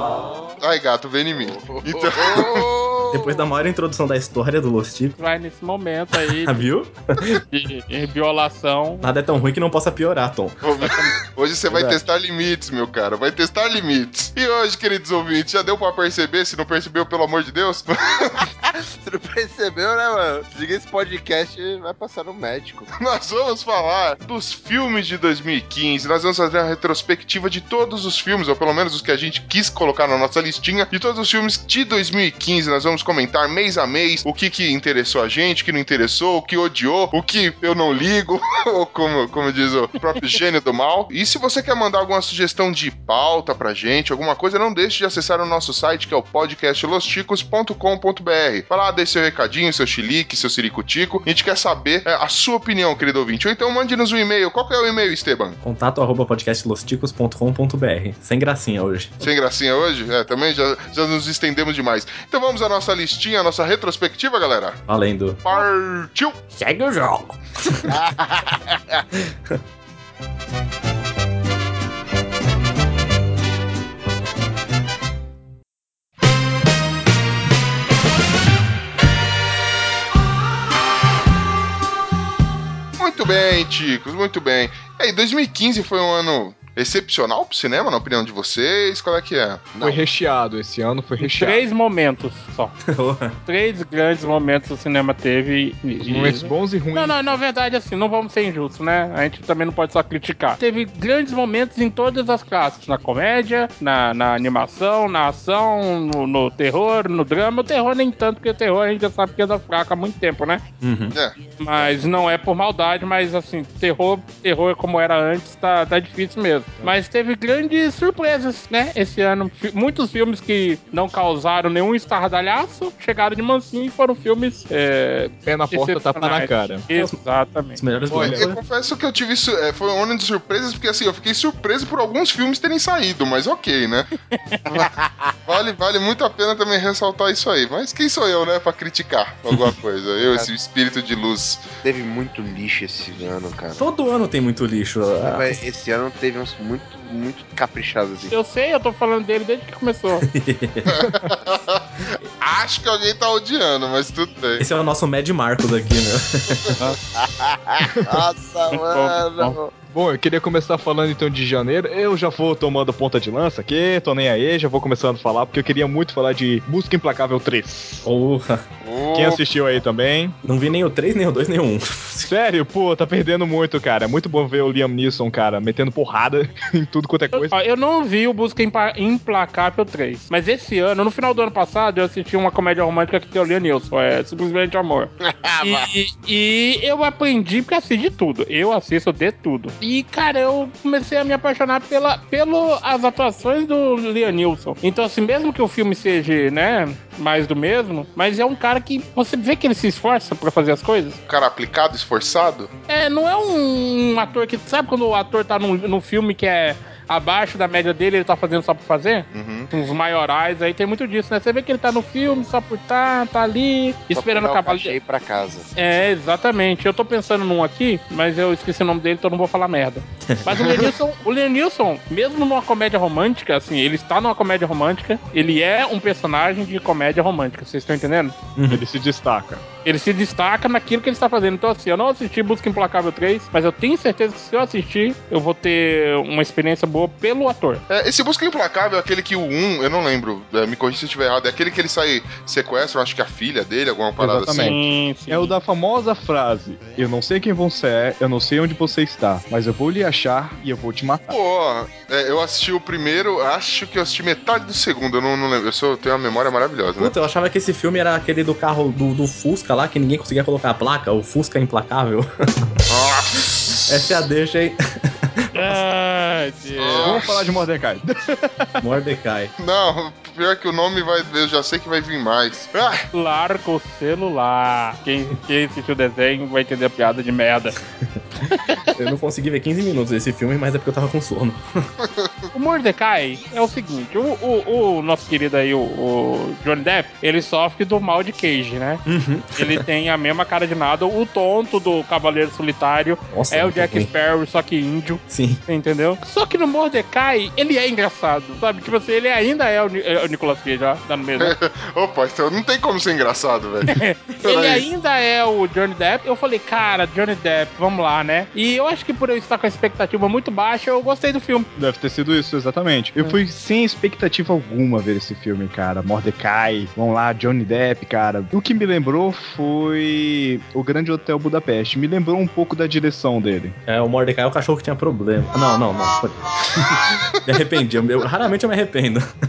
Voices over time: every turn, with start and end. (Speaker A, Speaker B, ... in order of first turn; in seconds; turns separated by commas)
Speaker A: 0.6-2.7, Speaker B: 1.4-3.4, Speaker C: 3.1-5.1, Speaker D: 5.2-6.6, Speaker C: 6.4-7.4, Speaker D: 7.5-9.1, Speaker C: 9.0-10.6, Speaker A: 10.6-18.4, Speaker E: 11.7-12.0, Speaker B: 19.0-22.9, Speaker A: 22.9-55.6, Speaker C: 55.6-59.2, Speaker A: 59.2-64.8, Speaker C: 64.9-65.4, Speaker A: 65.4-66.5, Speaker C: 66.5-67.9, Speaker B: 67.9-69.0, Speaker A: 83.0-89.7, Speaker B: 89.7-90.0, Speaker E: 89.8-91.6, Speaker D: 91.2-92.7, Speaker C: 92.9-93.3, Speaker D: 93.5-110.6, Speaker E: 96.0-97.2, Speaker C: 110.8-111.2, Speaker A: 111.1-111.3, Speaker D: 111.6-127.8, Speaker E: 125.5-126.8, Speaker C: 126.9-127.2, Speaker C: 127.7-128.6, Speaker E: 128.1-128.5, Speaker A: 128.2-134.1, Speaker B: 134.7-135.1, Speaker A: 135.5-141.6, Speaker B: 141.8-143.8, Speaker C: 143.8-145.6, Speaker B: 145.3-148.3, Speaker D: 148.3-150.2, Speaker C: 150.2-151.0, Speaker A: 150.9-154.6, Speaker C: 154.6-156.7, Speaker B: 157.2-159.7, Speaker D: 158.7-159.6, Speaker E: 159.8-168.1, Speaker C: 168.0-168.6, Speaker A: 168.8-169.4, Speaker E: 169.1-170.3, Speaker C: 170.4-172.3, Speaker E: 172.2-177.6, Speaker D: 177.3-201.2, Speaker B: 185.2-185.9, Speaker A: 201.3-202.7, Speaker D: 202.9-214.9, Speaker A: 209.3-209.7, Speaker B: 214.1-215.7, Speaker D: 215.7-228.3, Speaker C: 220.3-220.6, Speaker C: 228.6-228.8, Speaker E: 228.7-229.6, Speaker D: 229.8-237.8, Speaker A: 237.9-244.8, Speaker E: 244.2-251.3, Speaker D: 244.6-245.5, Speaker A: 251.3-257.1, Speaker C: 257.0-262.3, Speaker A: 262.9-263.8, Speaker C: 263.9-265.3, Speaker D: 265.5-267.2, Speaker A: 266.8-267.5, Speaker E: 267.0-268.8, Speaker C: 268.8-269.5, Speaker A: 269.6-273.1, Speaker D: 273.1-277.8, Speaker C: 278.9-281.6, Speaker A: 282.0-282.3, Speaker D: 282.5-289.0, Speaker C: 289.1-289.8, Speaker D: 289.6-301.5, Speaker C: 293.3-294.1, Speaker C: 295.3-295.6, Speaker A: 301.4-304.9, Speaker D: 303.9-311.7, Speaker E: 311.8-323.8, Speaker C: 323.9-329.3